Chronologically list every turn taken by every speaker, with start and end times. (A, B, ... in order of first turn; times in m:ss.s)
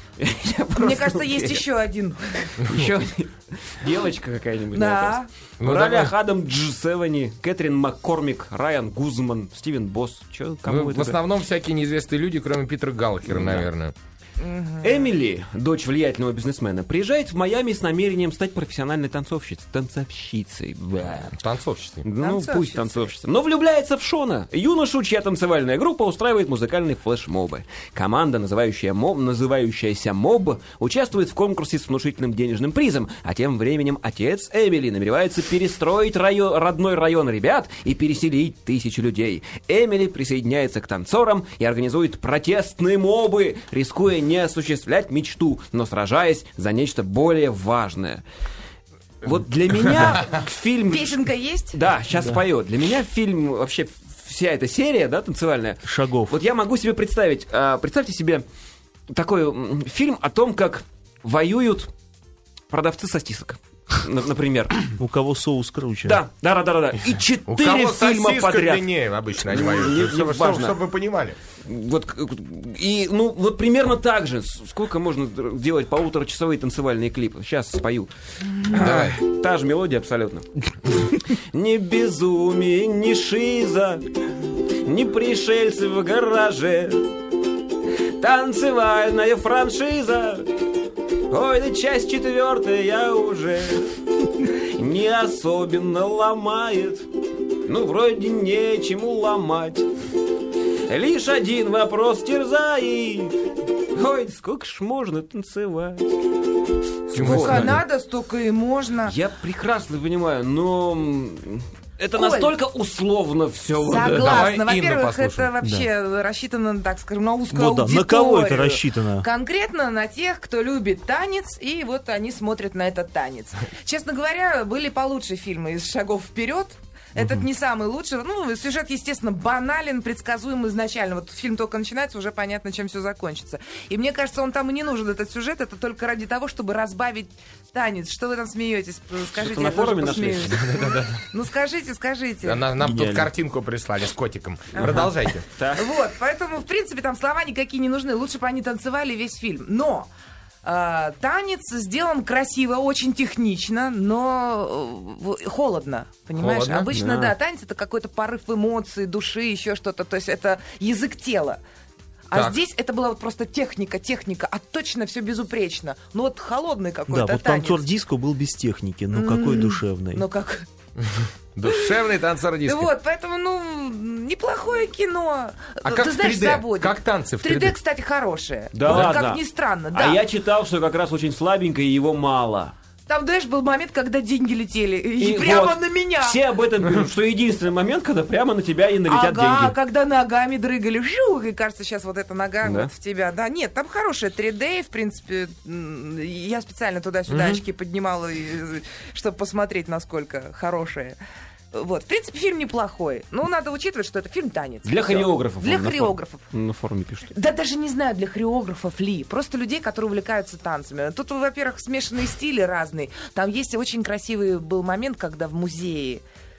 0:00.2-0:01.6 A
0:00.8-0:02.6 B
0:02.6-0:02.9 C
0:02.6-0:11.2 A
0:04.7-0:05.3 B
0:05.6-0:06.1 C
0:10.7-0:13.9 C
0:13.3-0:13.7 A
0:14.4-0:15.1 B
0:14.8-0:21.3 A
0:21.0-0:22.0 C
0:22.0-0:48.2 A
0:22.2-0:23.1 B
0:49.2-0:51.2 A
0:49.9-0:50.3 C
0:50.9-0:51.8 B
0:51.7-0:58.4 A
0:55.8-0:56.4 D
0:59.1-1:01.9 A
1:02.7-1:04.9 A
1:05.0-1:06.2 D
1:06.1-1:10.8 A
1:07.5-1:11.4 C
1:11.6-1:24.1 A
1:18.7-1:19.2 C
1:24.8-1:27.1 A
1:27.9-1:30.6 A
1:31.3-1:37.1 A
1:37.6-1:39.9 A
1:40.9-1:46.2 A
1:47.1-1:47.8 A
1:47.1-1:47.8 C
1:47.2-1:49.1 B
1:49.0-1:54.5 A
1:52.1-1:52.5 B
1:53.8-2:22.7 B
1:54.2-1:55.5 C
1:57.5-1:59.2 D
2:07.2-2:07.4 D
2:19.3-2:20.7 A
2:20.5-2:21.2 C
2:22.4-2:25.4 C
2:22.8-2:23.2 A
2:24.8-2:25.8 A
2:25.7-2:30.1 B
2:30.6-2:41.6 B
2:36.4-2:36.9 C
2:36.9-2:37.3 A
2:42.3-2:47.8 B
2:42.3-2:42.6 C
2:47.1-2:50.2 D
2:49.1-2:50.7 B
2:51.0-2:52.9 C
2:52.6-3:00.2 B
2:55.8-2:57.8 C
2:58.7-2:59.4 A
2:58.9-2:59.1 C
2:59.9-3:02.7 A
3:03.1-3:06.4 B
3:05.2-3:09.7 A
3:09.0-3:21.2 B
3:12.6-3:12.9 A
3:17.3-3:17.6 A
3:21.7-3:26.4 B
3:24.8-3:27.3 A
3:27.3-3:36.2 B